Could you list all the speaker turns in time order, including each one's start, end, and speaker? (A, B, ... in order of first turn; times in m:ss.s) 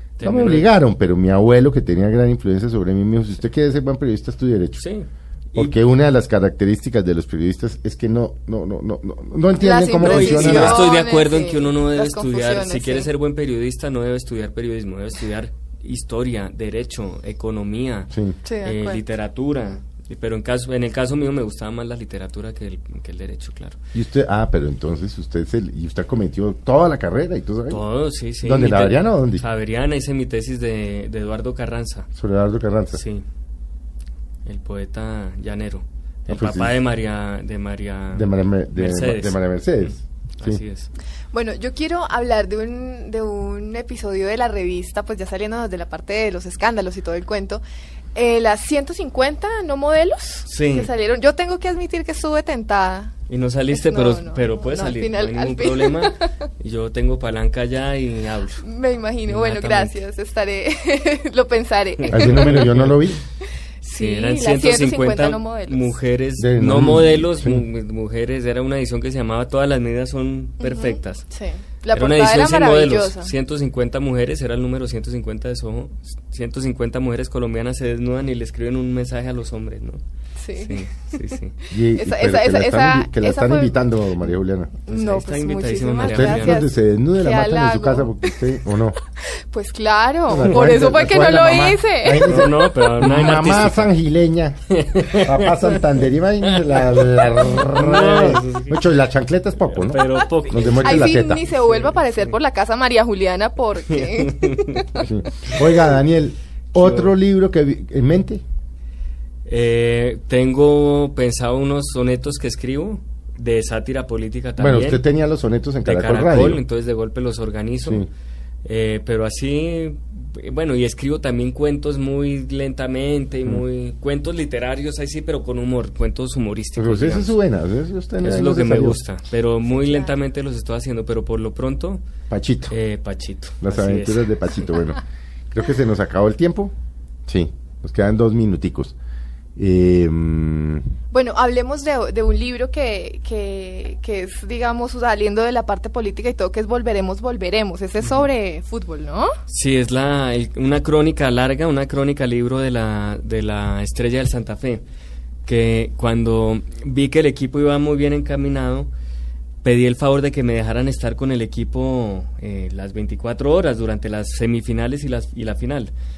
0:00.2-0:00.7 A
0:00.2-0:04.8 B
0:04.8-0:05.8 A
0:05.6-0:10.9 B
0:09.6-0:13.1 C
0:10.0-0:18.1 A
0:18.1-0:18.4 B
0:18.4-0:19.0 C
0:18.6-0:23.8 A
0:23.9-0:27.8 B
0:27.7-0:32.1 A
0:28.4-0:29.4 B
0:32.1-0:33.0 B
0:32.9-0:33.2 A
0:34.4-0:40.9 A
0:36.3-0:36.8 B
0:38.1-0:40.6 B
0:41.3-0:47.6 C
0:48.1-0:53.1 C
0:50.4-0:50.9 A
0:53.3-0:58.6 A
0:53.7-0:56.3 C
0:58.6-1:02.8 C
0:59.3-0:59.9 A
1:02.0-1:03.0 A
1:02.1-1:03.2 B
1:03.8-1:06.0 C
1:04.0-1:11.2 A
1:06.4-1:07.6 B
1:10.6-1:13.3 C
1:11.9-1:20.0 A
1:20.4-1:21.3 C
1:20.6-1:21.5 A
1:21.7-1:24.8 B
1:22.0-1:23.8 C
1:24.8-1:28.4 C
1:24.9-1:26.6 A
1:26.0-1:29.0 B
1:29.5-1:32.8 C
1:30.3-1:41.4 B
1:32.2-1:33.9 A
1:34.7-1:38.8 A
1:39.7-1:42.3 A
1:40.8-1:45.0 C
1:43.9-1:45.5 A
1:45.0-1:48.4 B
1:46.7-1:47.1 A
1:49.4-1:55.0 A
1:54.6-1:56.6 B
1:55.8-1:58.1 A
1:57.8-1:58.1 B
1:58.6-2:07.4 A
2:06.8-2:09.0 B
2:08.2-2:12.0 A
2:09.6-2:10.1 C
2:12.3-2:12.7 B
2:12.7-2:14.6 A
2:13.6-2:16.7 B
2:17.3-2:18.9 B
2:19.6-2:20.8 B
2:21.1-2:29.3 C
2:28.0-2:28.3 A
2:29.5-2:34.8 A
2:35.4-2:38.9 A
2:39.6-2:45.9 A